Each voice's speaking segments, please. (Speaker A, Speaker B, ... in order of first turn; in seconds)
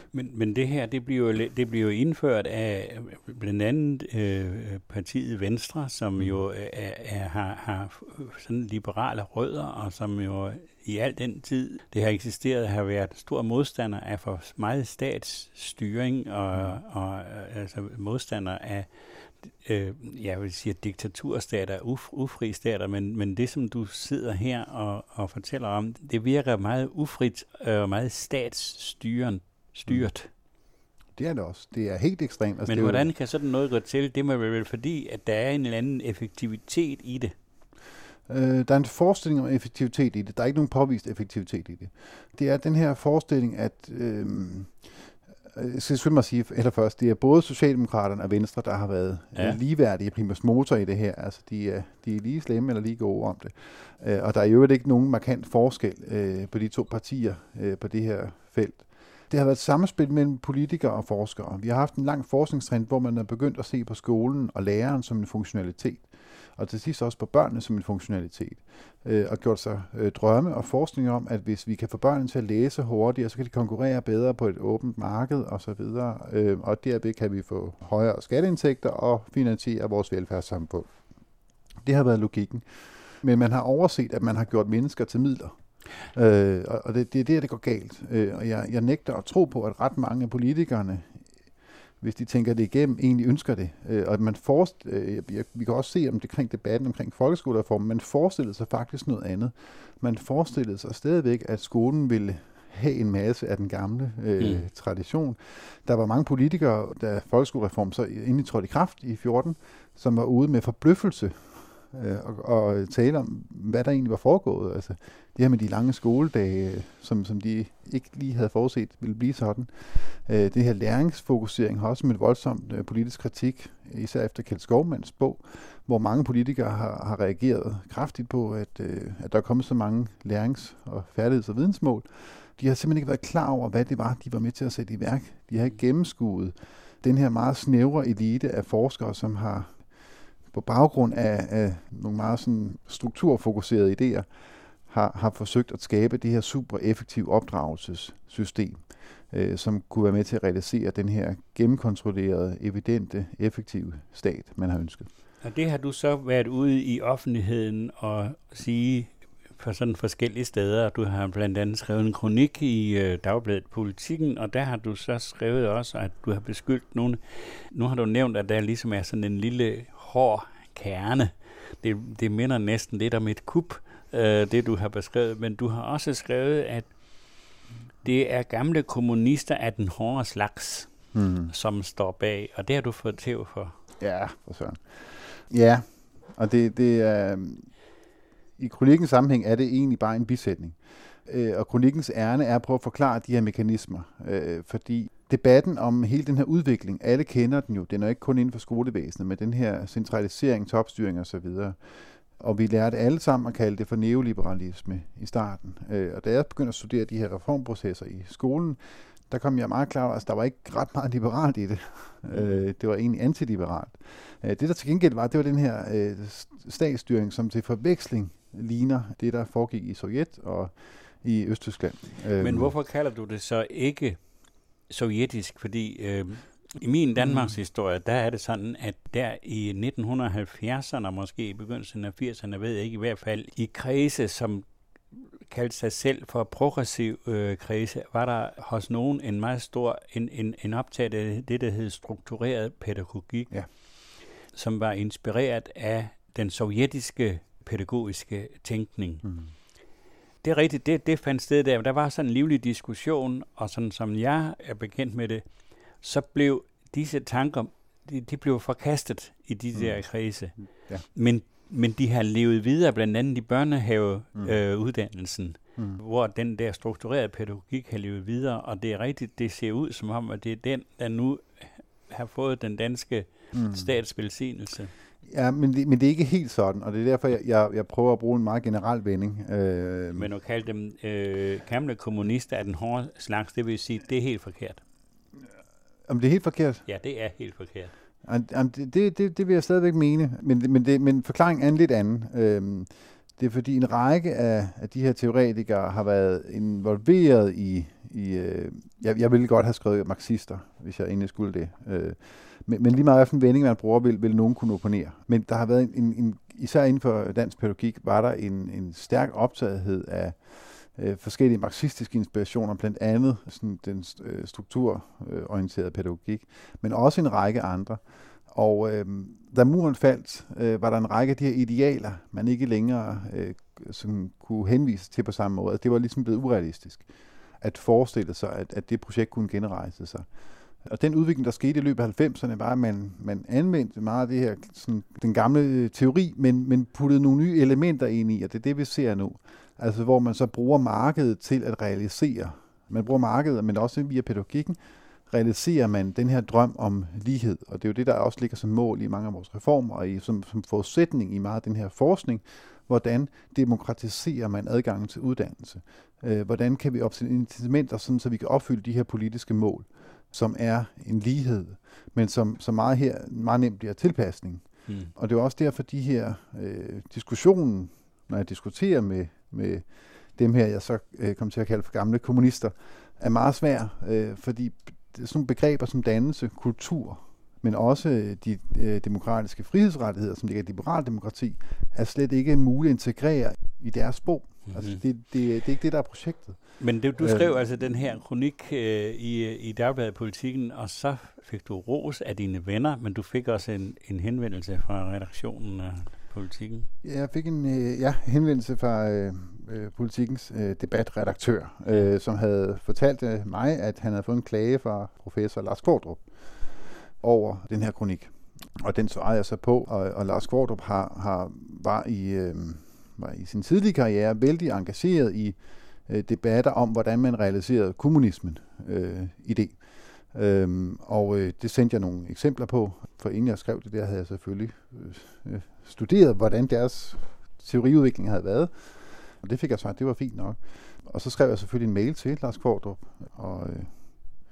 Speaker A: 0.1-18.9, 19.6-30.3, 32.7-37.3, 104.4-104.7, 155.4-176.9, 178.0-180.9, 181.5-183.7, 212.3-212.6, 222.4-224.3, 224.9-234.7, 235.5-243.5, 244.5-249.2, 250.4-255.4, 256.0-274.9, 280.1-284.8, 286.9-287.9, 384.7-385.0, 386.8-396.9
Speaker B: 31.1-33.1, 38.3-80.9, 81.8-91.2, 92.0-139.8, 140.5-144.3, 144.9-155.1, 181.1-181.5, 184.0-187.7, 188.6-201.8, 202.3-222.7, 227.2-227.6, 249.2-249.5, 259.7-260.0, 260.6-261.0, 273.5-273.8, 275.2-280.3, 286.1-286.8, 288.2-327.1, 327.6-330.2, 330.8-386.6, 387.2-387.6, 397.0-406.2, 407.2-419.8, 420.3-433.9